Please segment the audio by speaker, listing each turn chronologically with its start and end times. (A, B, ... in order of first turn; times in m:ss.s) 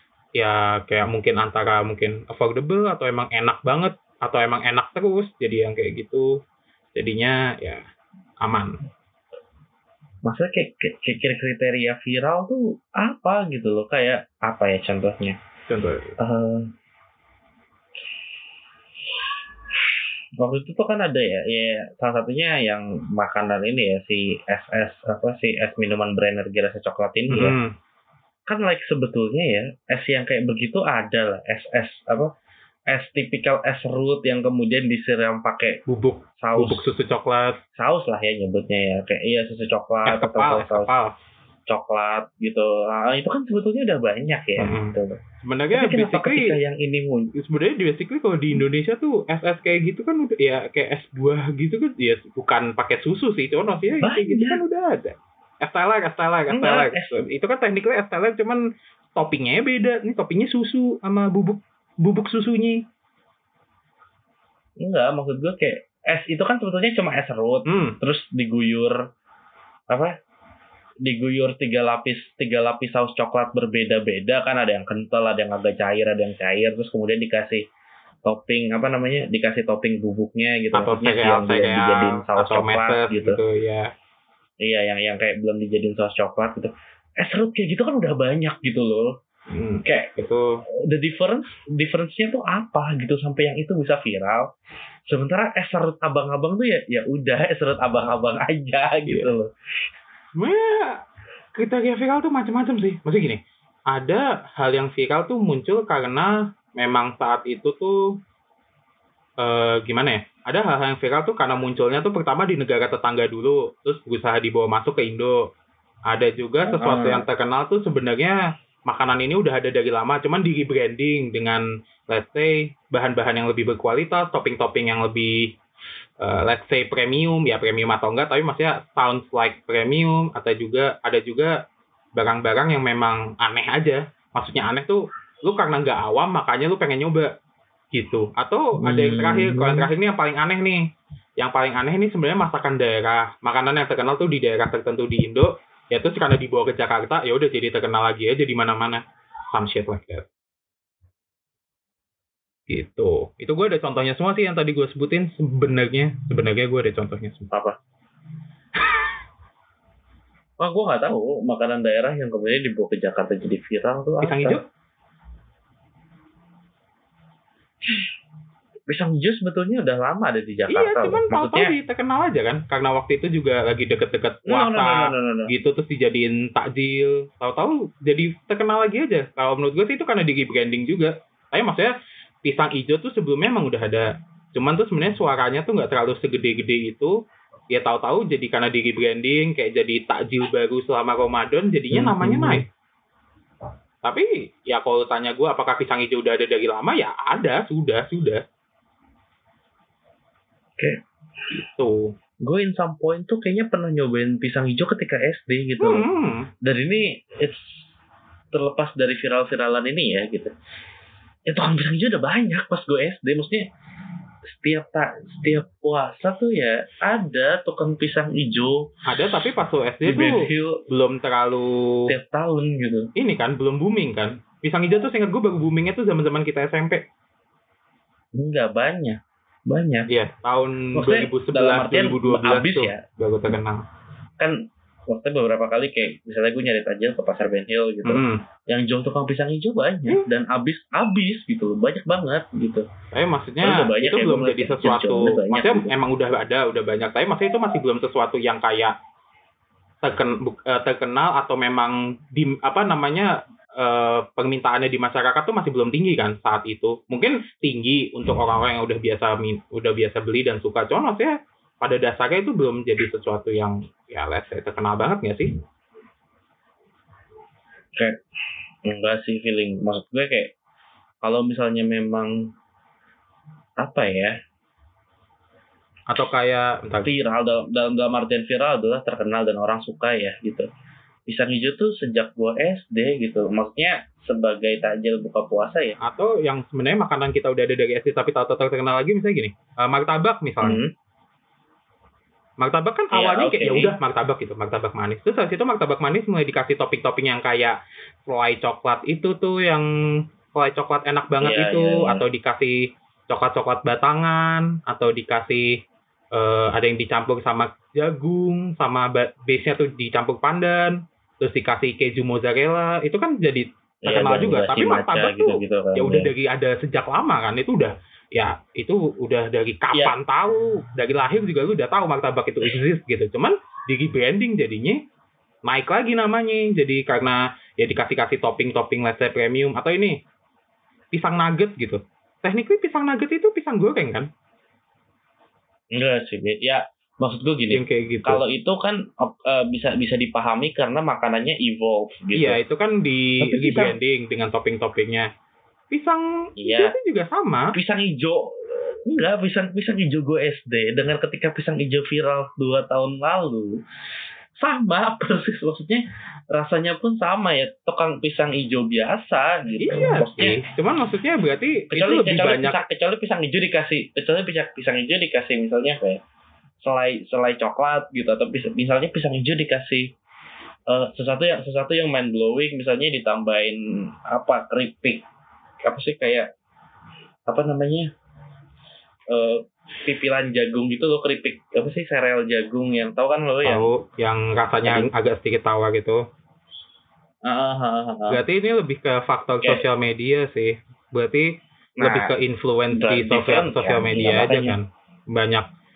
0:00.3-0:06.3 A
0:06.9-0:07.8 A
0:08.4-0:08.8 A
0:10.2-0:15.4 B
0:15.7-0:16.2 A
0:16.2-0:16.7 B
0:20.4-0:27.6 B
0:27.3-0:27.7 A
0:28.5-0:32.3 B
0:32.9-0:35.8 B
0:35.9-0:37.6 A
0:36.4-0:36.9 B
0:37.8-0:40.9 B
0:40.0-0:41.1 A
0:41.7-0:45.2 B
0:44.6-0:46.5 A
0:45.7-0:47.3 B
0:47.3-0:58.6 A
0:54.0-0:54.6 B
0:56.5-0:57.2 B
0:59.2-1:02.8 A
1:04.8-1:09.0 B
1:07.6-1:08.0 A
1:11.0-1:17.6 B
1:18.2-1:23.4 B
1:20.7-1:23.9 A
1:24.6-1:29.1 B
1:29.5-1:30.6 A
1:29.8-1:30.1 B
1:30.8-1:34.5 B
1:35.1-1:39.5 B
1:39.0-1:39.3 A
1:40.4-1:41.0 A
1:41.5-1:48.0 A
1:49.4-1:55.5 A
1:56.1-2:05.6 A
1:56.6-1:57.2 B
2:06.2-2:11.6 A
2:12.2-2:17.3 A
2:17.9-2:20.8 A
2:18.8-2:19.9 B
2:21.4-2:30.3 A
2:32.7-2:37.5 A
2:37.5-2:37.8 B
2:40.6-2:44.6 B
2:44.2-2:44.6 A
2:48.9-2:51.7 B
2:50.7-3:01.9 A
2:54.4-2:55.5 B
3:02.4-3:07.1 A
3:07.7-3:12.6 A
3:11.9-3:12.6 B
3:14.0-3:18.4 A
3:21.8-3:22.1 A
3:22.4-3:26.1 B
3:25.8-3:26.5 A
3:26.6-3:27.9 B
3:28.5-3:30.5 B
3:31.5-3:33.7 B
3:34.4-3:38.9 B
3:39.0-3:42.1 A
3:40.0-3:40.8 B
3:42.1-3:43.1 B
3:43.2-3:47.0 A
3:48.3-3:50.1 B
3:50.1-3:53.8 A
3:50.9-3:53.0 B
3:54.4-4:02.8 B
3:58.0-3:58.4 A
4:03.1-4:08.9 A
4:03.6-4:05.9 B
4:10.0-4:25.5 A
4:28.8-4:30.5 B
4:31.2-4:32.5 B
4:33.8-4:34.4 B
4:36.1-4:37.1 A
4:37.0-4:40.7 B
4:41.3-4:46.0 B
4:46.0-4:50.8 A
4:50.6-4:50.9 B
4:52.6-4:59.9 A
4:53.1-4:53.9 B
5:00.5-5:25.0 A
5:01.4-5:02.2 B
5:14.0-5:16.3 B
5:25.6-5:30.2 A
5:31.1-5:34.3 A
5:35.9-5:42.6 B
5:37.7-5:38.4 A
5:42.3-5:45.3 A
5:43.4-5:44.0 B
5:45.9-5:47.7 A
5:46.6-5:46.9 B
5:47.7-5:53.8 B
5:54.6-6:00.6 B
5:59.8-6:02.8 A
6:01.9-6:06.2 B
6:06.8-6:10.1 B
6:10.9-6:15.2 B
6:15.8-6:16.5 B
6:17.5-6:18.1 B
6:19.3-6:23.9 B
6:23.6-6:26.2 A
6:24.8-6:25.1 B
6:27.4-6:28.4 B
6:28.3-6:35.6 A
6:32.0-6:32.3 B
6:32.9-6:34.8 B